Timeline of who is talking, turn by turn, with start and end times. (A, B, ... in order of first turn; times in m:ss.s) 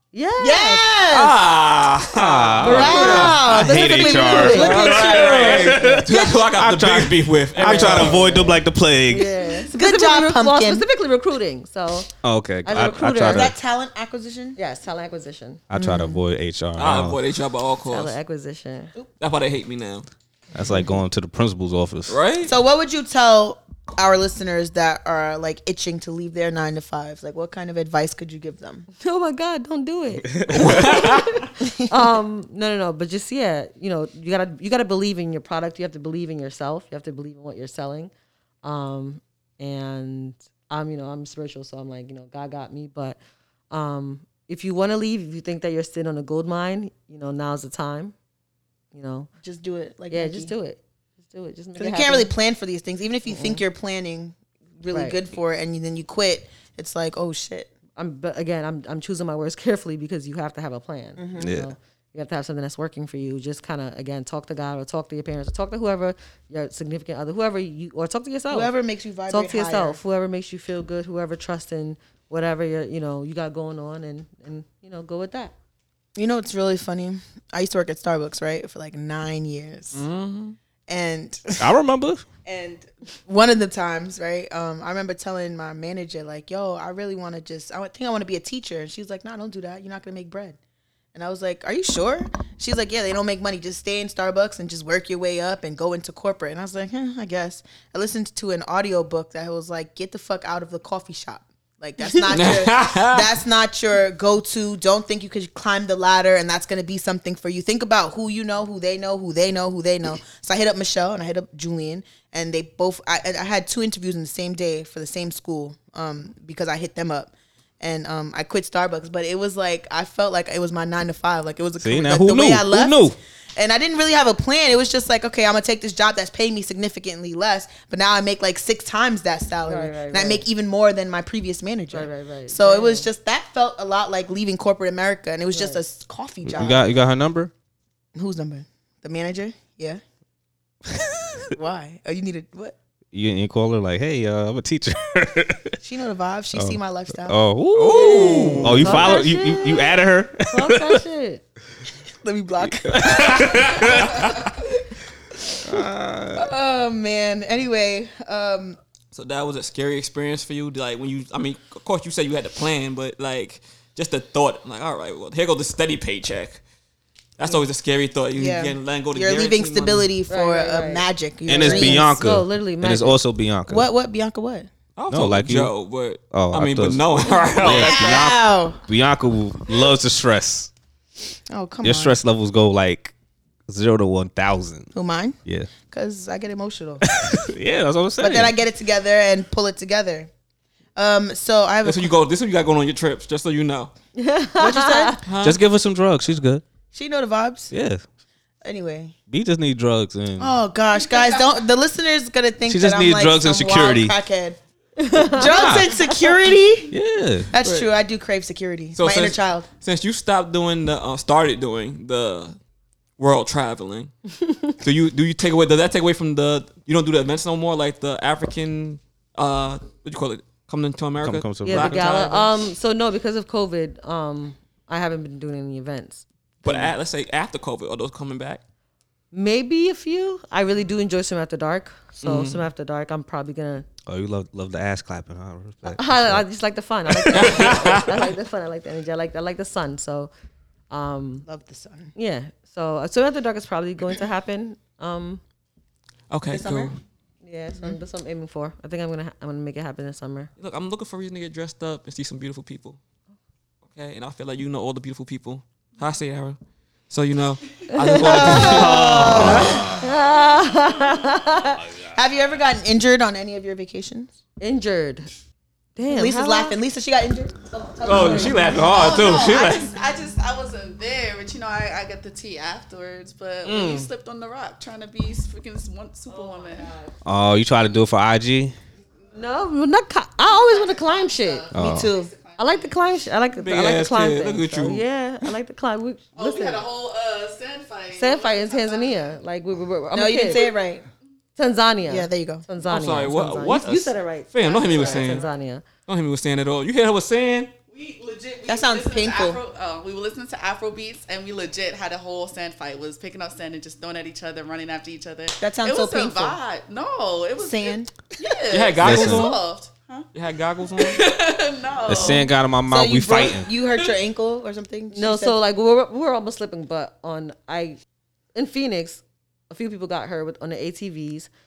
0:00.1-0:00.9 A
0:00.4-0:01.4 B
0:01.1-0:03.4 C
0:02.1-0:09.3 D
0:02.6-0:06.0 A
0:02.7-0:05.9 B
0:04.5-0:08.3 C
0:07.6-0:12.1 A
0:09.5-0:10.8 B
0:12.2-0:13.6 D
0:12.6-0:13.5 A
0:13.3-0:14.6 B
0:14.6-0:15.6 A
0:15.7-0:17.2 D
0:15.7-0:16.2 B
0:16.8-0:18.1 C
0:17.9-0:18.9 A
0:19.2-0:20.1 C
0:20.5-0:22.2 D
0:22.1-0:22.5 C
0:22.4-0:28.9 B
0:29.0-0:38.1 A
0:30.2-0:31.2 D
0:30.5-0:31.3 C
0:31.6-0:32.0 B
0:38.6-0:43.2 A
0:43.7-0:48.1 A
0:48.9-0:49.3 A
0:49.4-0:50.5 B
0:50.1-0:52.3 A
0:51.8-0:57.7 B
0:53.3-0:53.6 A
0:54.9-0:55.2 A
0:58.0-1:08.7 A
1:01.2-1:01.5 B
1:01.4-1:01.7 D
1:08.5-1:10.0 B
1:09.3-1:15.5 A
1:16.2-1:20.0 B
1:19.9-1:20.6 C
1:20.9-1:21.7 B
1:21.6-1:22.2 D
1:22.4-1:30.6 B
1:31.1-2:16.9 B
1:42.3-1:43.4 C
2:01.8-2:03.2 D
2:09.6-2:10.4 A
2:11.9-2:13.1 A
2:15.5-2:15.8 A
2:16.4-2:17.5 D
2:18.1-2:20.0 B
2:21.0-2:21.4 D
2:21.5-2:22.7 B
2:23.1-2:25.7 D
2:25.8-2:27.4 B
2:26.5-2:31.0 D
2:27.7-2:29.1 C
2:27.9-2:29.9 A
2:28.8-2:29.2 B
2:30.5-2:31.4 A
2:32.2-2:34.8 B
2:32.6-2:34.5 D
2:33.4-2:34.2 C
2:35.6-2:36.5 D
2:36.3-2:38.8 B
2:39.1-2:46.6 C
2:47.4-2:50.1 C
2:48.4-2:52.1 B
2:50.3-2:53.2 A
2:51.4-2:53.9 D
2:53.7-2:54.7 B
2:55.0-2:58.3 C
2:55.1-2:55.7 D
2:56.3-3:00.7 D
2:57.6-2:58.8 B
3:01.5-3:02.2 B
3:01.8-3:03.1 D
3:03.7-3:04.9 D
3:04.9-3:07.4 B
3:05.4-3:05.7 D
3:07.1-3:08.6 D
3:08.2-3:10.3 B
3:11.0-3:12.1 B
3:11.8-3:13.9 C
3:14.2-3:15.2 A
3:14.6-3:15.2 B
3:15.2-3:15.6 C
3:15.4-3:16.6 D
3:16.9-3:17.7 B
3:17.7-3:18.0 D
3:18.6-3:19.2 B
3:19.3-3:20.6 D
3:20.4-3:24.6 B
3:22.6-3:24.1 D
3:25.0-3:26.0 A
3:25.2-3:26.9 B
3:25.4-3:25.9 D
3:26.9-3:27.6 D
3:27.5-3:29.6 B
3:28.9-3:32.6 C
3:33.2-3:34.1 C
3:34.4-3:34.8 A
3:34.8-3:42.5 C
3:41.2-3:42.1 D
3:41.6-3:46.9 A
3:46.6-3:48.6 C
3:49.3-3:53.9 A
3:52.2-3:52.6 C
3:54.1-3:56.4 D
3:55.9-4:00.3 A
3:57.3-3:57.9 D
3:57.3-3:58.0 C
4:00.9-4:01.4 A
4:01.4-4:02.1 B
4:02.1-4:05.4 A
4:06.3-4:07.0 C
4:06.5-4:06.9 B
4:07.4-4:10.5 A
4:10.6-4:13.0 C
4:13.9-4:16.6 C
4:17.1-4:19.9 C
4:17.9-4:21.9 A
4:18.1-4:20.0 B
4:19.1-4:20.0 D
4:22.0-4:24.3 B
4:24.6-4:25.3 A
4:26.0-4:26.8 A
4:26.0-4:29.8 B
4:28.0-4:29.9 C
4:28.1-4:28.6 A
4:28.4-4:36.9 E
4:33.6-4:34.1 C
4:36.3-4:37.1 A
4:37.2-4:38.7 D
4:39.3-4:41.7 A
4:40.4-4:43.0 E
4:41.7-4:42.1 D
4:41.8-4:42.3 B
4:42.6-4:46.8 A
4:43.6-4:45.0 C
4:46.4-4:49.4 E
4:48.1-4:50.7 A
4:50.1-4:51.0 B
4:51.6-4:55.8 A
4:52.1-4:52.6 B
4:52.8-4:55.4 C
4:54.6-4:55.5 E
4:56.1-4:57.7 C
4:57.9-5:10.3 E
4:58.7-4:59.6 B
5:05.6-5:06.6 B
5:07.6-5:08.1 B
5:08.7-5:09.6 C
5:09.0-5:09.5 D
5:10.3-5:11.2 C
5:11.0-5:12.5 E
5:12.0-5:13.7 D
5:12.9-5:15.6 B
5:15.1-5:18.0 A
5:18.5-5:21.5 A